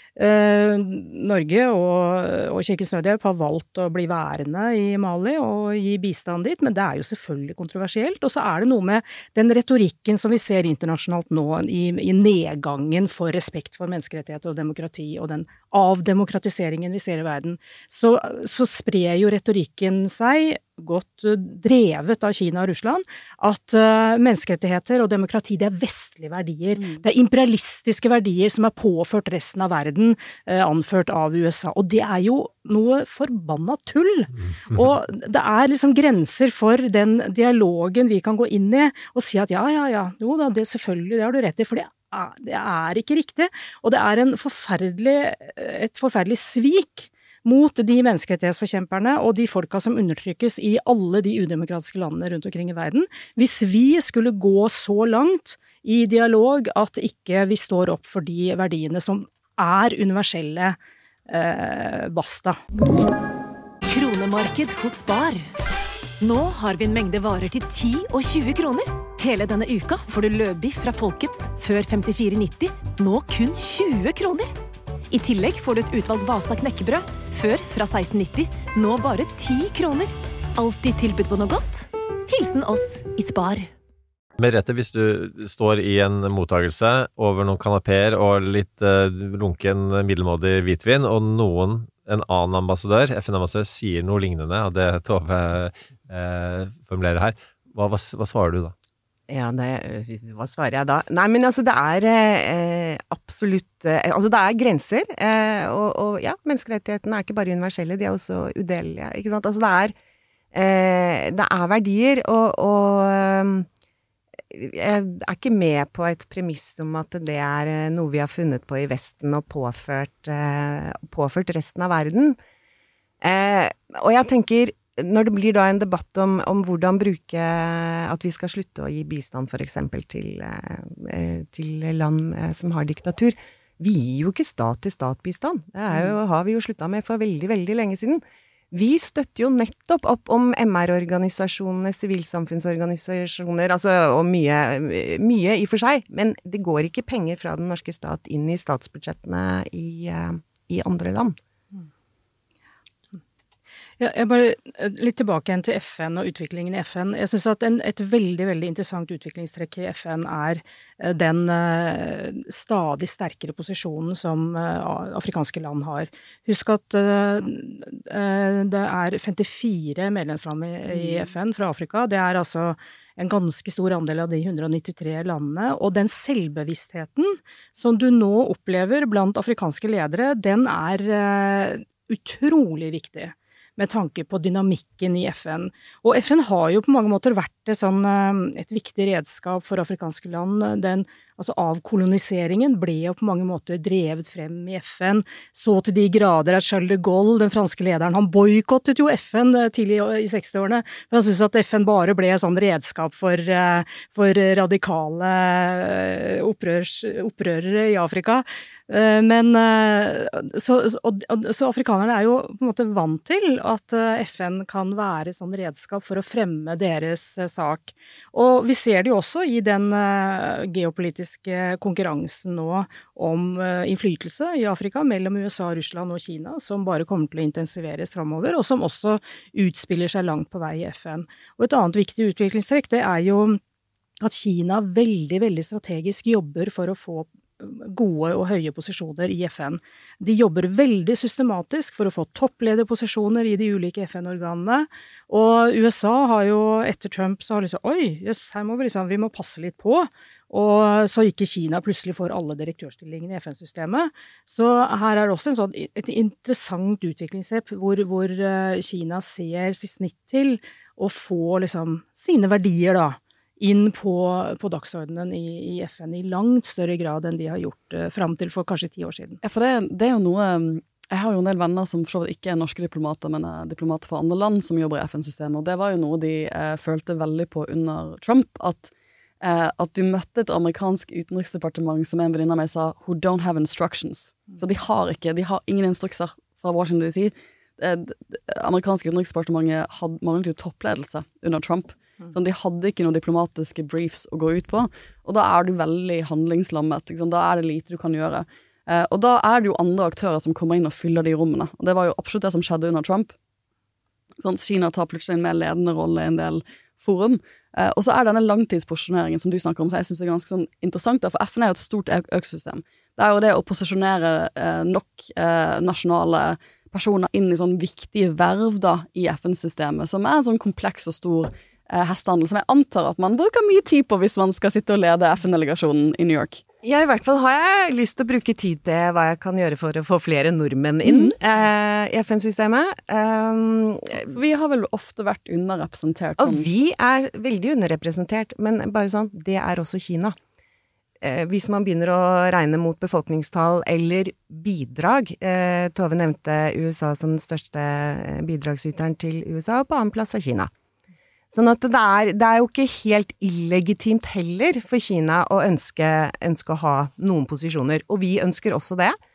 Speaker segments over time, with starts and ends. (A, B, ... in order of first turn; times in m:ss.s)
0:00.2-1:00.8 A
0:26.8-0:27.0 B
1:01.3-1:02.6 A
1:03.9-1:05.4 C
1:06.2-1:14.5 C
1:15.1-1:23.7 C
1:24.4-1:38.7 D
1:39.3-1:49.9 E
1:50.5-1:53.7 E
1:54.5-2:02.4 E
2:03.2-2:31.4 E
2:34.0-3:53.6 A
2:50.9-2:51.3 B
3:54.2-4:29.4 A
4:29.4-5:03.3 B
5:04.4-5:26.6 B
5:26.8-5:34.3 E
5:31.0-5:31.4 B
5:34.3-5:36.7 B
5:36.4-5:40.4 E
5:41.2-5:50.7 E
5:51.5-5:59.2 E